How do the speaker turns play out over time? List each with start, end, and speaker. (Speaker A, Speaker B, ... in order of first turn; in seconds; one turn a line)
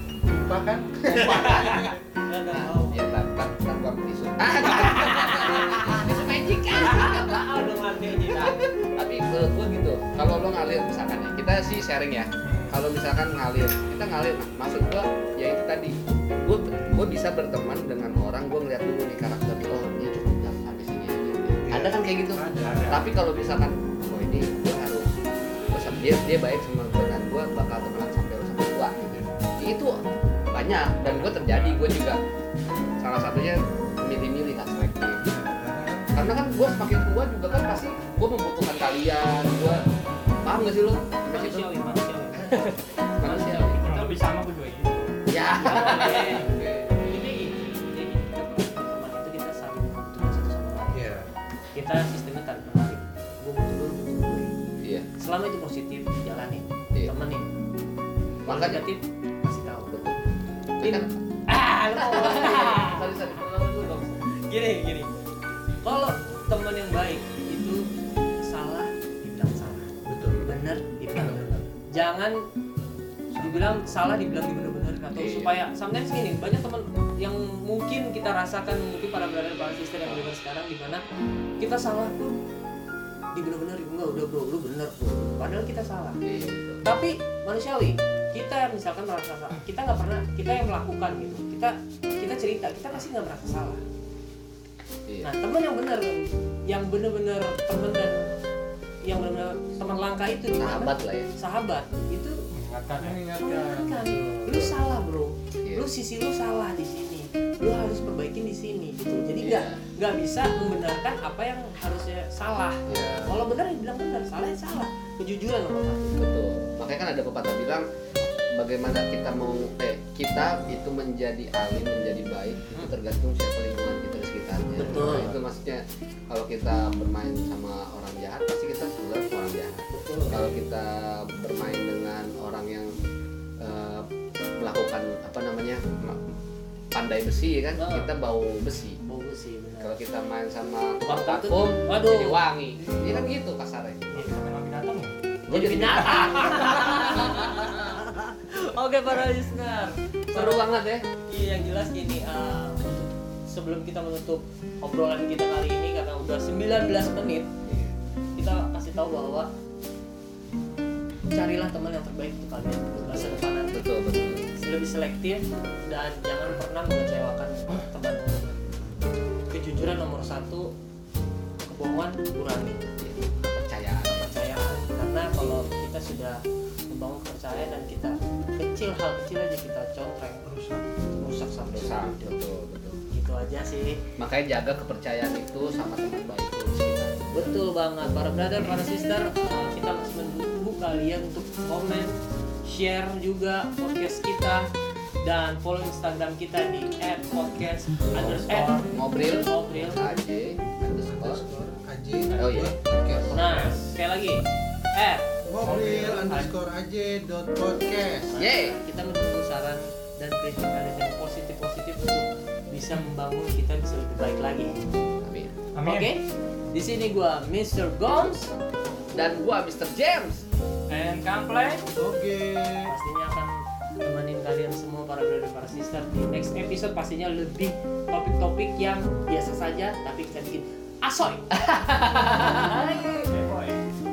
Speaker A: 0.3-2.0
Speaker B: 1.1-3.0
Speaker C: 1.2-1.6
Speaker C: 2.5-7.5
Speaker B: 4.6-6.0
Speaker B: 6.7-8.6
Speaker C: 8.2-25.1
Speaker D: 12.4-12.7
Speaker A: 21.6-23.0
Speaker D: 22.6-23.1
Speaker C: 25.7-30.0
Speaker A: 29.1-29.3
Speaker C: 30.5-32.2
Speaker D: 31.0-31.8
Speaker C: 33.0-35.2
Speaker A: 35.2-36.1
Speaker C: 36.1-39.8
Speaker C: 40.4-43.8
Speaker B: 41.3-44.3
Speaker D: 43.8-45.1
Speaker C: 45.3-46.5
Speaker B: 45.6-51.1
Speaker A: 46.5-46.9
Speaker A: 50.9-51.3
Speaker B: 51.7-54.6
Speaker B: 55.2-57.5
Speaker C: 58.5-58.9
Speaker B: 58.5-60.0
Speaker C: 59.9-60.2
Speaker C: 60.8-61.1
Speaker B: 60.8-63.1
Speaker C: 61.9-64.2
Speaker B: 64.3-65.1
Speaker B: 65.8-67.9
Speaker B: 68.4-72.4
Speaker A: 70.1-70.5
Speaker A: 71.2-71.5
Speaker A: 73.3-73.9
Speaker B: 73.4-81.0
Speaker C: 75.1-75.6
Speaker B: 81.6-82.4
Speaker B: 83.3-86.2
Speaker C: 86.2-86.8
Speaker B: 86.8-93.8
Speaker B: 95.2-98.2
Speaker B: 99.0-102.4
Speaker C: 100.6-101.3
Speaker D: 102.5-104.5
Speaker B: 103.0-116.2
Speaker C: 109.4-109.8
Speaker C: 112.9-113.5
Speaker C: 116.2-117.9
Speaker C: 118.5-132.9
Speaker B: 124.8-125.4
Speaker B: 129.9-130.6
Speaker C: 133.6-136.3
Speaker C: 136.9-139.0
Speaker B: 137.8-138.1
Speaker B: 139.0-140.0
Speaker C: 139.8-144.3
Speaker B: 141.0-143.2
Speaker D: 144.1-145.1
Speaker C: 145.5-147.4
Speaker B: 145.5-150.7
Speaker C: 150.3-151.1
Speaker B: 151.3-157.5
Speaker C: 157.7-157.9
Speaker B: 158.4-159.5
Speaker B: 161.3-163.9
Speaker C: 163.0-164.5
Speaker B: 164.6-168.7
Speaker B: 169.5-170.7
Speaker B: 171.6-172.8
Speaker C: 173.0-174.4
Speaker B: 174.1-180.5
Speaker A: 180.4-180.9
Speaker B: 181.2-182.4
Speaker C: 181.7-183.0
Speaker B: 183.1-184.0
Speaker C: 184.2-187.5
Speaker B: 187.3-194.7
Speaker B: 195.2-200.1
Speaker D: 198.2-198.9
Speaker C: 198.9-201.4
Speaker A: 201.1-203.4
Speaker D: 202.3-204.0
Speaker C: 202.4-202.7
Speaker B: 203.3-204.4
Speaker B: 204.9-206.5
Speaker A: 205.5-208.3
Speaker B: 208.3-214.8
Speaker C: 208.4-208.8
Speaker C: 215.2-215.6
Speaker D: 215.7-216.1
Speaker B: 215.8-218.5
Speaker C: 219.1-220.5
Speaker D: 220.9-221.8
Speaker A: 221.9-222.9
Speaker B: 222.9-231.6
Speaker C: 231.6-232.8
Speaker B: 232.2-233.3
Speaker D: 232.6-233.8